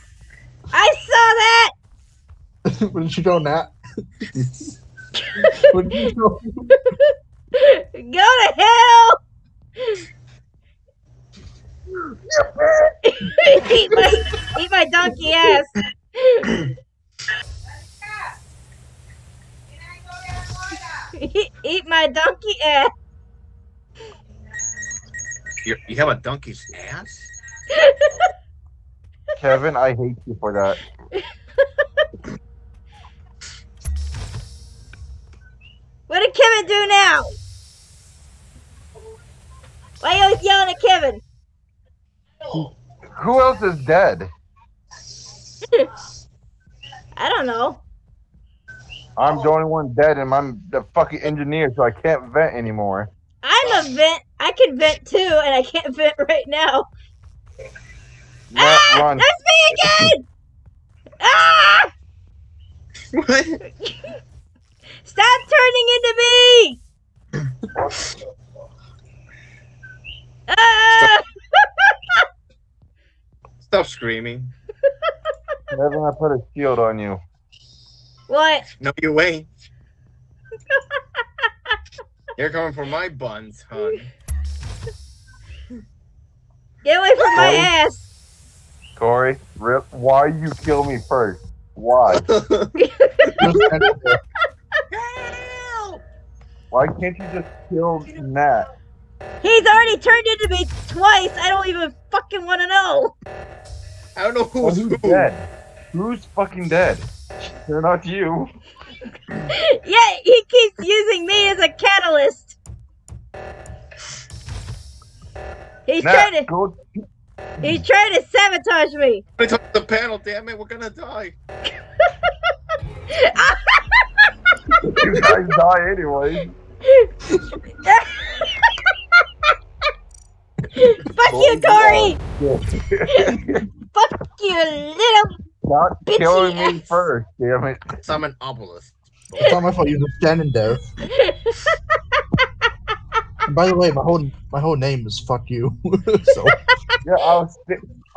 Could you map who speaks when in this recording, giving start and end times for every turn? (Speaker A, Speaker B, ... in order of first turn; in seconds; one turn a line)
Speaker A: 0.7-1.7
Speaker B: 2.7-3.7
Speaker A: 5.4-5.8
Speaker B: 5.6-6.7
Speaker A: 6.9-9.2
Speaker C: 12.3-12.9
Speaker A: 13.0-16.6
Speaker A: 21.1-22.9
Speaker D: 25.6-27.3
Speaker A: 27.7-28.2
Speaker C: 29.4-30.8
Speaker A: 36.1-37.4
Speaker A: 40.0-41.2
Speaker C: 42.5-44.3
Speaker A: 47.2-47.8
Speaker C: 49.2-53.1
Speaker A: 53.4-56.9
Speaker C: 58.5-59.3
Speaker A: 58.6-60.2
Speaker A: 61.2-61.9
Speaker D: 63.1-63.6
Speaker A: 63.8-64.1
Speaker A: 65.0-66.8
Speaker A: 70.5-72.2
Speaker D: 73.6-74.5
Speaker C: 75.7-77.2
Speaker A: 78.3-78.7
Speaker D: 78.8-79.5
Speaker D: 82.4-84.1
Speaker A: 86.8-88.1
Speaker C: 87.3-87.7
Speaker C: 89.0-92.3
Speaker D: 92.3-92.7
Speaker A: 92.8-93.4
Speaker B: 93.4-94.2
Speaker D: 94.9-96.0
Speaker C: 96.7-98.7
Speaker A: 99.4-103.1
Speaker D: 104.2-105.3
Speaker C: 104.6-108.5
Speaker A: 109.8-112.6
Speaker A: 115.9-116.5
Speaker C: 116.0-116.8
Speaker A: 117.6-119.2
Speaker D: 119.4-121.4
Speaker A: 123.1-124.3
Speaker C: 124.7-126.5
Speaker A: 127.8-128.7
Speaker A: 130.7-132.2
Speaker C: 131.2-133.7
Speaker A: 133.9-135.3
Speaker C: 135.7-137.8
Speaker A: 136.1-136.9
Speaker D: 138.0-139.6
Speaker B: 139.4-140.9
Speaker A: 141.1-141.8
Speaker B: 143.5-146.6
Speaker C: 147.0-147.8